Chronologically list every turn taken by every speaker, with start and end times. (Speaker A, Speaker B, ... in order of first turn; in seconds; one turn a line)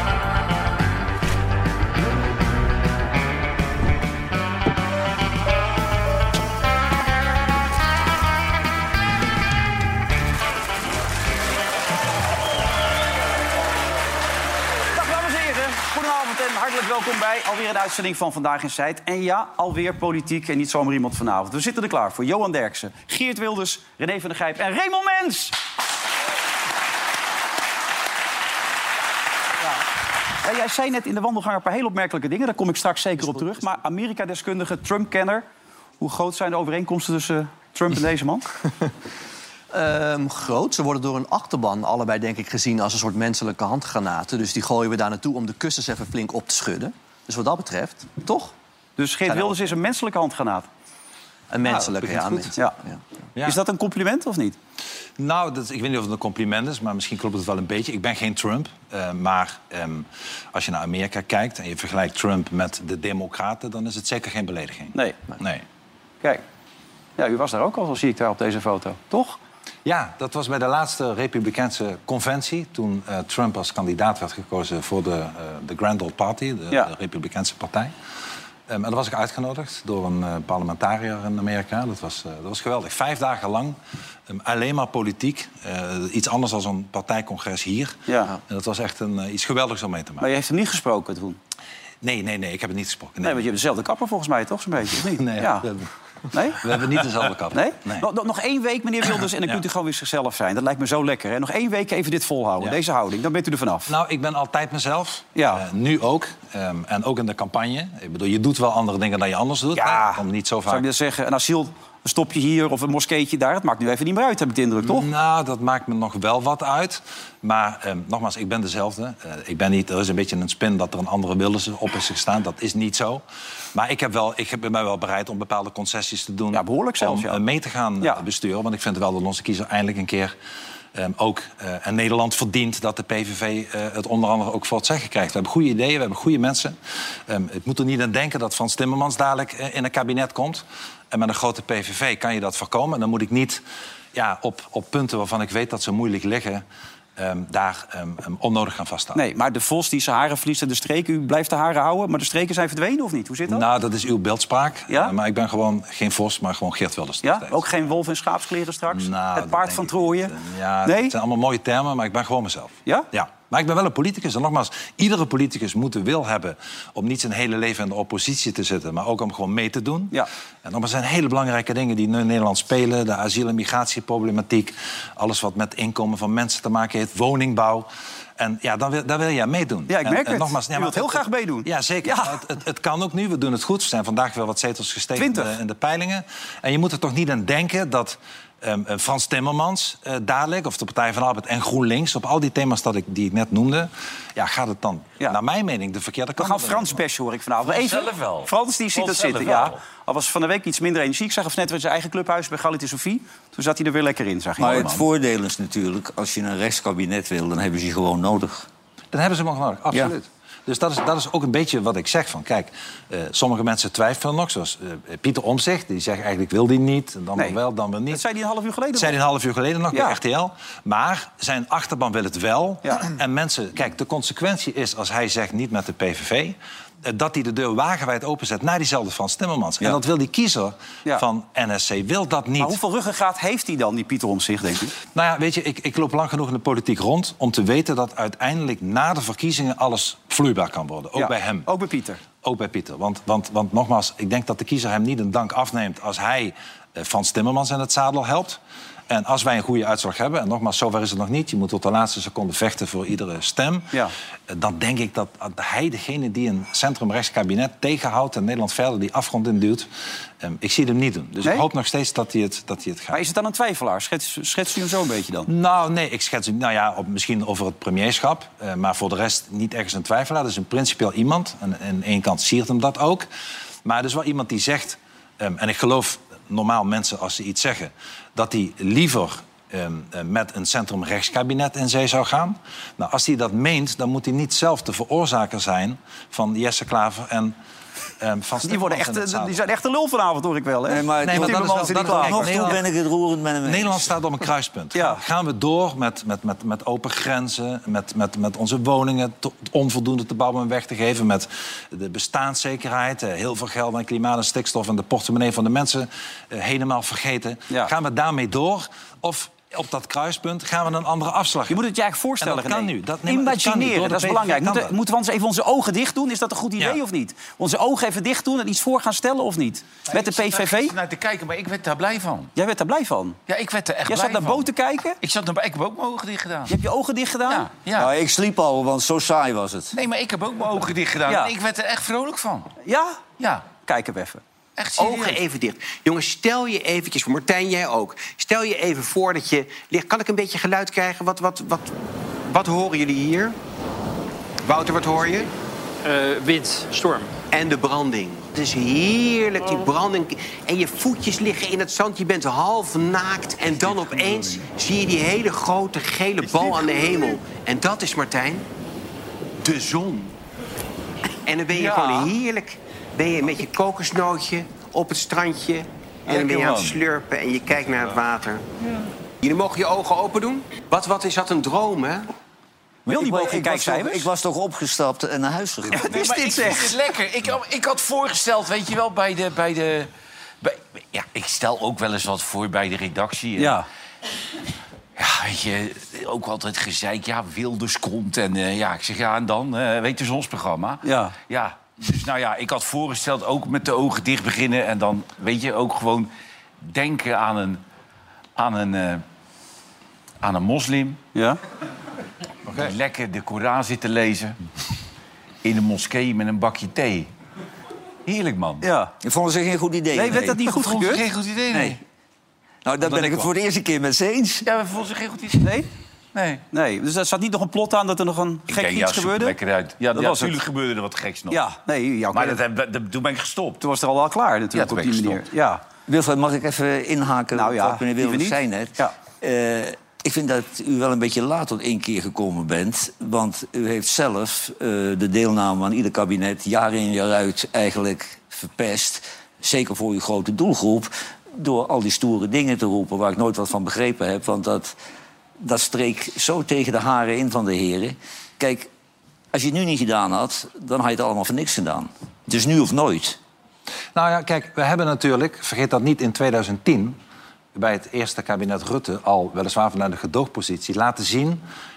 Speaker A: 14.9-25.6
Speaker A: 30.4-35.5
Speaker A: 36.0-38.5
Speaker B: 39.7-48.5
Speaker A: 49.0-50.7
Speaker B: 49.3-49.7
Speaker B: 51.5-53.0
Speaker C: 51.6-52.5
Speaker A: 53.4-54.6
Speaker C: 55.2-65.6
Speaker A: 67.2-69.4
Speaker C: 69.8-77.9
Speaker C: 78.7-83.8
Speaker C: 84.3-90.3
Speaker A: 88.1-88.4
Speaker A: 90.2-91.4
Speaker C: 92.0-93.5
Speaker A: 93.2-95.7
Speaker C: 95.2-95.9
Speaker A: 96.3-96.6
Speaker C: 96.6-98.1
Speaker A: 97.5-103.9
Speaker C: 103.9-110.8
Speaker A: 105.4-105.6
Speaker A: 109.7-115.1
Speaker C: 114.8-130.3
Speaker A: 126.5-127.4
Speaker C: 130.9-136.8
Speaker C: 137.3-143.6
Speaker C: 144.1-146.7
Speaker C: 147.2-149.2
Speaker A: 149.2-153.7
Speaker C: 153.5-157.7
Speaker A: 157.2-160.3
Speaker C: 158.9-197.0
Speaker A: 160.8-161.1
Speaker A: 179.9-182.4
Speaker A: 185.2-185.5
Speaker A: 196.4-205.0
Speaker D: 197.6-199.8
Speaker E: 204.6-208.7
Speaker C: 209.1-218.2
Speaker A: 218.1-219.2
Speaker C: 218.9-232.8
Speaker A: 232.6-234.9
Speaker C: 235.1-241.7
Speaker A: 241.2-242.2
Speaker C: 242.4-253.9
Speaker C: 254.5-259.9
Speaker C: 260.4-263.2
Speaker A: 263.1-265.5
Speaker C: 265.5-273.3
Speaker C: 273.8-287.6
Speaker C: 288.2-289.6
Speaker A: 288.6-292.6
Speaker E: 290.9-294.0
Speaker C: 291.2-292.8
Speaker C: 293.6-311.8
Speaker A: 294.9-295.2
Speaker A: 311.7-320.9
Speaker C: 312.4-314.9
Speaker D: 320.1-322.5
Speaker A: 322.6-323.4
Speaker D: 323.5-324.7
Speaker A: 324.1-325.2
Speaker D: 325.2-326.8
Speaker A: 326.7-327.7
Speaker D: 327.5-328.1
Speaker E: 328.0-329.9
Speaker D: 329.9-332.7
Speaker A: 332.9-333.2
Speaker D: 333.4-333.6
Speaker A: 333.9-334.4
Speaker D: 334.8-335.4
Speaker F: 335.0-341.9
Speaker F: 342.5-343.6
Speaker F: 344.7-345.5
Speaker F: 346.1-358.6
Speaker D: 353.7-354.6
Speaker D: 356.5-356.8
Speaker F: 359.6-360.3
Speaker F: 361.5-368.6
Speaker D: 361.7-362.3
Speaker D: 366.3-367.0
Speaker F: 369.4-372.3
Speaker E: 373.1-376.7
Speaker A: 373.1-374.3
Speaker D: 375.9-380.1
Speaker A: 376.1-376.6
Speaker D: 380.6-383.8
Speaker A: 383.6-383.9
Speaker D: 385.2-396.3
Speaker A: 391.0-391.3
Speaker D: 396.8-397.8
Speaker D: 398.6-399.2
Speaker D: 400.4-401.2
Speaker C: 402.7-402.9
Speaker D: 402.7-404.6
Speaker D: 405.6-407.3
Speaker D: 408.3-408.9
Speaker A: 408.8-409.1
Speaker E: 409.2-410.7
Speaker A: 410.1-411.2
Speaker D: 410.7-412.0
Speaker E: 411.7-412.0
Speaker E: 412.9-414.6
Speaker C: 413.0-413.5
Speaker D: 414.6-415.8
Speaker A: 415.6-415.9
Speaker D: 416.3-416.6
Speaker A: 416.7-419.6
Speaker D: 418.7-421.6
Speaker A: 420.1-420.6
Speaker A: 421.5-422.6
Speaker D: 422.3-423.8
Speaker A: 423.8-425.8
Speaker D: 424.7-425.4
Speaker E: 426.1-444.9
Speaker A: 427.5-429.1
Speaker E: 445.6-448.9
Speaker E: 449.5-453.4
Speaker C: 454.1-457.2
Speaker C: 457.8-461.6